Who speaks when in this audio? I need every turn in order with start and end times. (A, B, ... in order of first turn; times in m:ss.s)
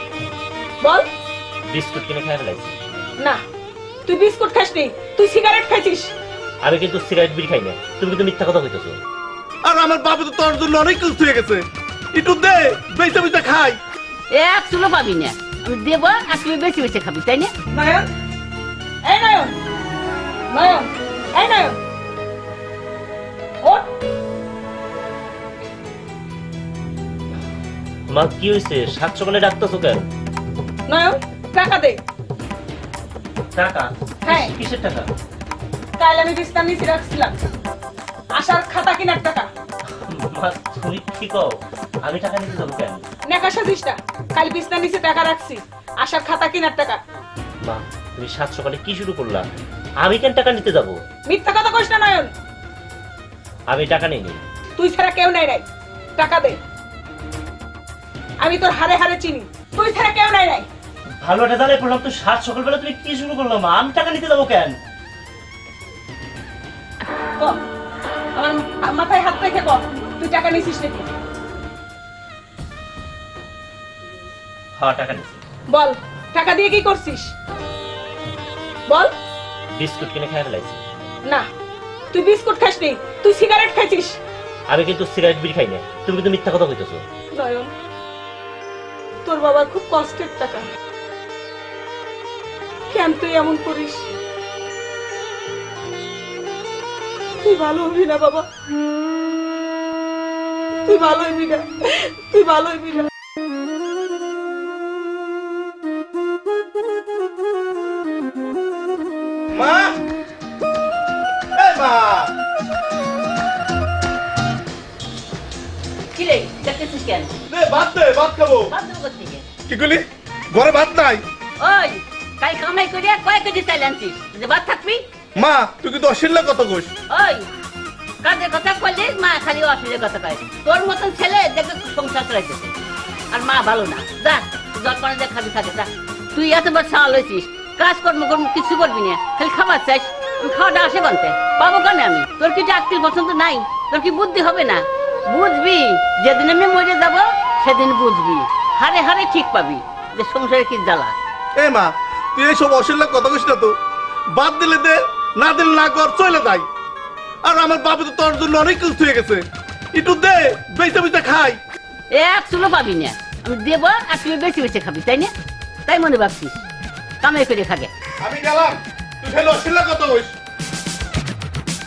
0:00.8-0:01.1 A
0:01.7-0:02.8 B
0:04.1-0:06.1 A
0:06.6-0:09.0 B
0:09.6-0:13.8 C
0:14.3-0:17.5 D
0:17.7-0:18.1 A
0:19.0-0:19.6 A
0:20.5-0:21.8 A
0:28.1-0:30.0 B
0:30.9-0:32.0 A
0:33.6-0:35.1 B
0:34.3-0:34.5 A
0:36.0-0:37.4 A
0:38.4-0:39.5 A
0:40.0-0:43.0 B
0:43.3-0:47.0 A
0:47.6-0:49.4 B
0:50.0-0:51.0 B
0:51.3-0:52.3 A
0:53.7-0:54.4 B
0:54.8-0:55.6 A
0:56.2-0:56.6 A
0:58.4-1:00.7 A
1:01.2-1:04.8 B
1:08.3-1:11.1 A
1:14.8-1:15.4 B
1:15.7-1:17.3 A
1:19.8-1:20.8 B
1:22.1-1:24.2 A
1:24.7-1:27.0 B
1:27.3-1:27.7 A
1:29.2-1:30.7 A
1:32.9-1:34.1 A
1:37.4-1:38.5 A
1:40.9-1:43.1 A
1:49.5-1:50.0 C
1:51.6-1:52.3 C
1:56.1-1:57.3 D
1:57.5-1:58.7 C
1:58.7-1:59.5 D
1:59.7-2:01.2 C
2:01.6-2:05.0 D
2:05.4-2:06.9 C
2:07.1-2:07.5 D
2:08.2-2:12.8 D
2:13.3-2:31.1 D
2:31.6-2:33.8 C
2:34.3-2:36.7 C
2:37.4-2:41.6 C
2:42.1-2:45.3 D
2:45.9-2:46.6 D
2:47.2-2:47.9 D
2:48.2-2:50.4 C